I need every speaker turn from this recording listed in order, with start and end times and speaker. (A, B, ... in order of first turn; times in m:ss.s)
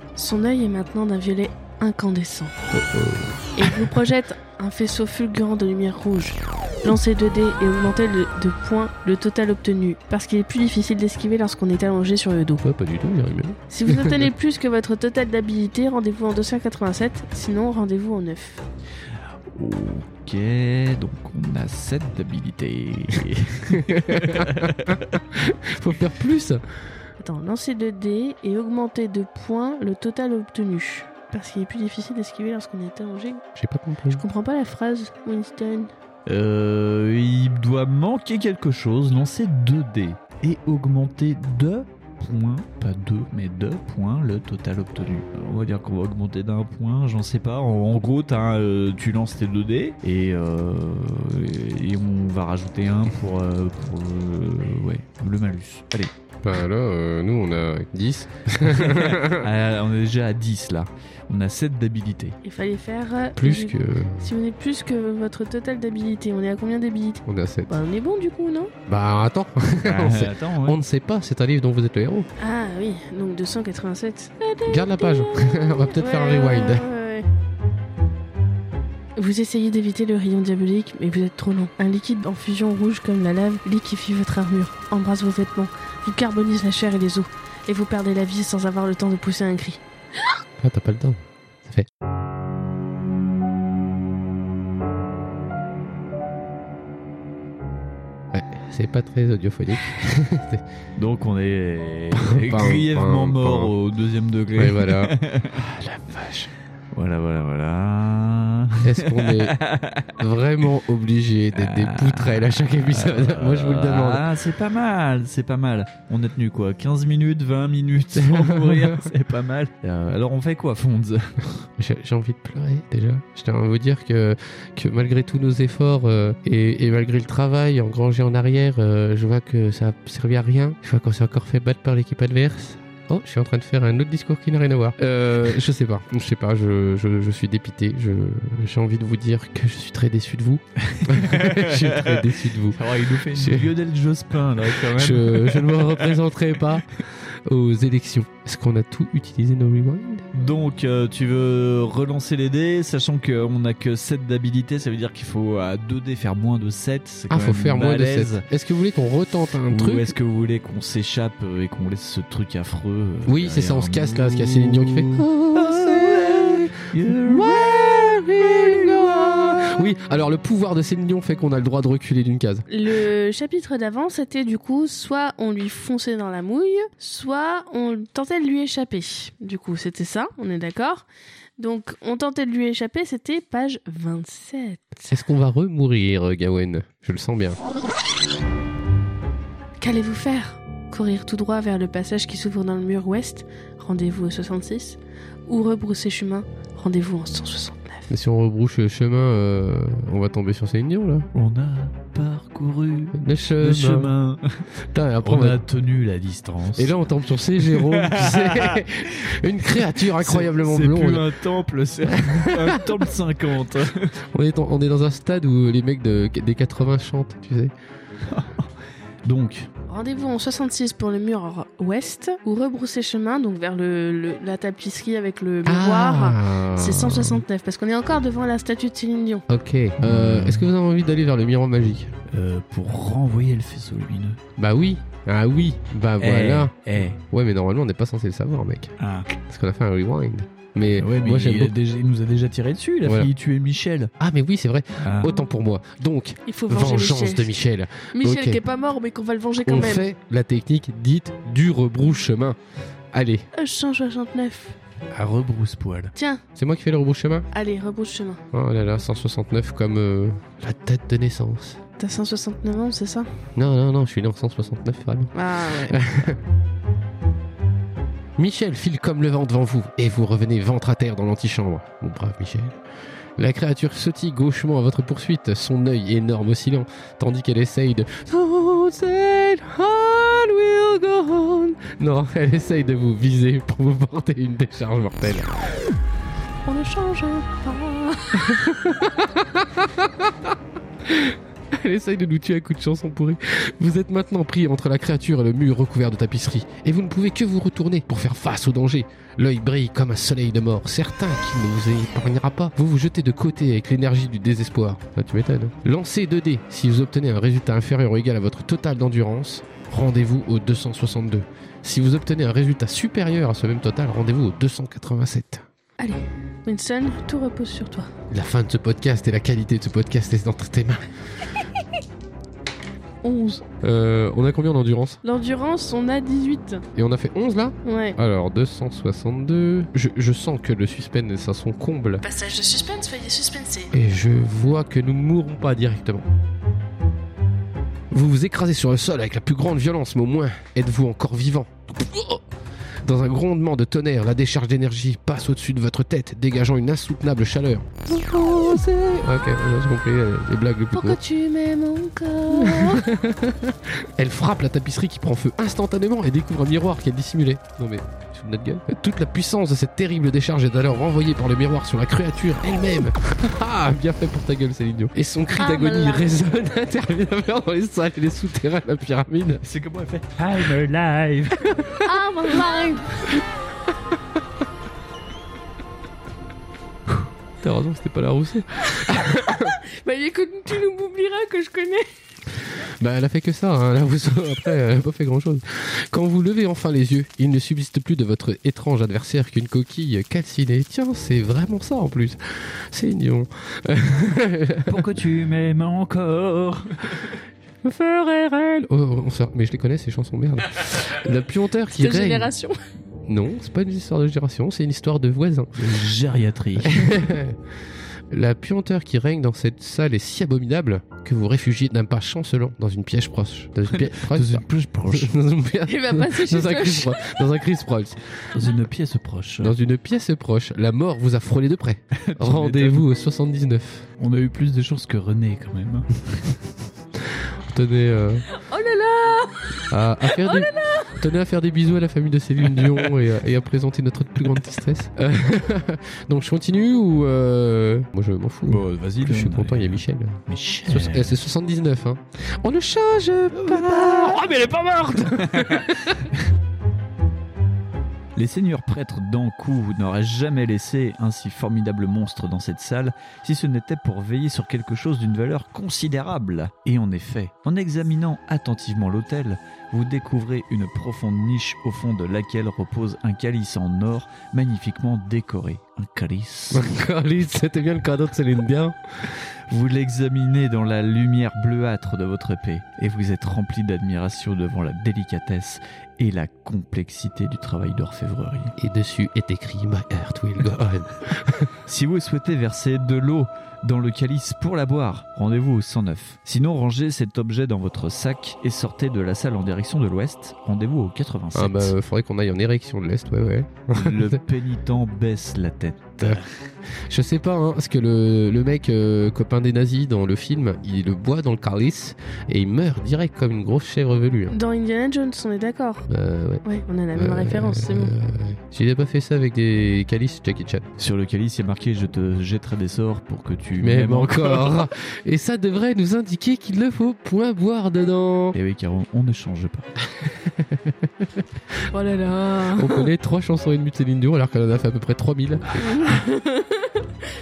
0:00.2-0:02.6 A
0:02.7-0:03.9 B
0:03.6-0:12.6 A
0:12.6-0:14.3 B
0:13.7-0:18.6 A
0:19.5-0:25.0 C
0:23.7-0:26.6 B
0:27.2-0:33.4 A
0:33.6-0:34.2 B
0:34.1-0:35.9 A
0:36.3-0:56.1 C
0:56.4-0:59.5 B
0:58.6-1:02.4 C
1:02.4-1:08.7 A
1:03.4-1:04.3 B
1:07.3-1:07.7 B
1:08.9-1:12.3 B
1:09.8-1:10.8 C
1:12.4-1:17.3 A
1:14.7-1:16.9 B
1:19.2-1:29.8 A
1:30.6-1:31.9 B
1:38.3-1:40.6 B
1:41.0-1:45.6 C
1:42.1-1:43.7 B
1:44.6-1:46.5 B
1:46.9-1:50.2 C
1:48.8-1:49.6 B
1:50.2-1:54.2 B
1:51.6-2:01.6 C
1:58.2-1:59.1 B
2:01.8-2:23.7 B
2:20.8-2:26.2 C
2:24.6-2:30.3 B
2:30.3-2:38.4 C
2:37.3-2:40.2 B
2:39.7-2:49.9 C
2:43.3-2:52.7 B
2:52.7-3:01.1 A
3:01.6-3:05.1 A
3:05.1-3:07.6 B
3:09.8-3:18.1 A
3:18.1-3:21.3 B
3:21.3-3:24.6 C
3:23.1-3:24.1 B
3:24.9-3:25.6 B
3:25.2-3:26.9 C
3:26.8-3:31.3 B
3:27.7-3:28.8 C
3:29.8-3:34.2 C
3:32.1-3:33.0 B
3:34.3-3:37.7 B
3:38.3-3:38.7 C
3:39.2-3:39.7 C
3:39.9-3:49.4 A
3:45.6-3:47.4 B
3:49.5-3:52.1 B
3:50.0-3:50.7 C
3:52.3-3:54.4 C
3:54.6-4:01.7 B
3:56.2-3:57.2 C
3:59.0-3:59.3 C
4:01.0-4:04.1 C
4:03.0-4:03.3 B
4:04.2-4:08.6 B
4:05.0-4:05.4 C
4:06.5-4:07.6 A
4:08.1-4:10.1 A
4:09.6-4:12.6 B
4:13.1-4:13.5 B
4:13.5-4:14.8 A
4:15.1-4:16.1 C
4:16.2-4:16.4 A
4:16.6-4:17.5 B
4:17.5-4:18.4 A
4:18.5-4:21.8 B
4:22.0-4:23.3 A
4:23.6-4:26.4 B
4:25.3-4:26.0 A
4:28.4-4:32.8 B
4:33.4-4:45.6 B
4:46.7-4:48.6 A
4:48.3-5:15.7 B
5:16.0-5:18.1 A
5:18.3-5:21.5 B
5:23.2-5:23.6 A
5:23.8-5:25.2 B
5:25.2-5:26.8 A
5:27.0-5:32.2 B
5:27.8-5:28.2 A
5:32.2-5:33.9 A
5:33.9-5:36.3 B
5:38.1-5:42.4 B
5:43.0-5:51.2 B
5:50.9-5:53.1 A
5:52.5-6:09.6 B
6:05.6-6:06.3 A
6:09.6-6:11.6 C
6:11.7-6:12.2 B
6:12.0-6:13.3 A
6:17.6-6:19.8 B
6:19.5-6:22.1 A
6:22.8-6:35.0 B
6:34.9-6:37.4 C
6:37.8-6:42.5 B
6:41.9-6:42.8 A
6:43.3-6:45.9 B
6:45.8-6:47.2 C
6:46.8-6:47.6 B
6:48.3-6:58.7 B
6:53.9-6:55.4 C
6:55.9-6:57.2 A
6:58.5-6:59.8 C
6:59.6-7:04.1 B
7:02.2-7:03.0 C
7:04.2-7:06.6 C
7:07.3-7:08.4 B
7:08.5-7:11.2 A
7:09.9-7:26.3 B
7:18.7-7:21.4 C
7:23.6-7:24.5 C
7:25.4-7:25.9 C
7:28.4-7:46.9 C
7:46.7-7:49.2 B
7:49.7-7:58.7 C
7:58.8-8:01.7 B
8:01.9-8:11.9 C
8:11.6-8:14.4 B
8:13.9-8:16.5 C
8:17.1-8:24.6 B
8:24.5-8:26.1 A
8:26.1-8:30.9 B
8:26.6-8:28.2 A
8:31.0-8:34.8 C
8:33.8-8:38.6 B
8:38.5-8:39.9 C
8:40.2-8:41.3 B
8:41.9-8:43.1 A
8:42.7-8:46.2 B
8:45.8-8:47.1 A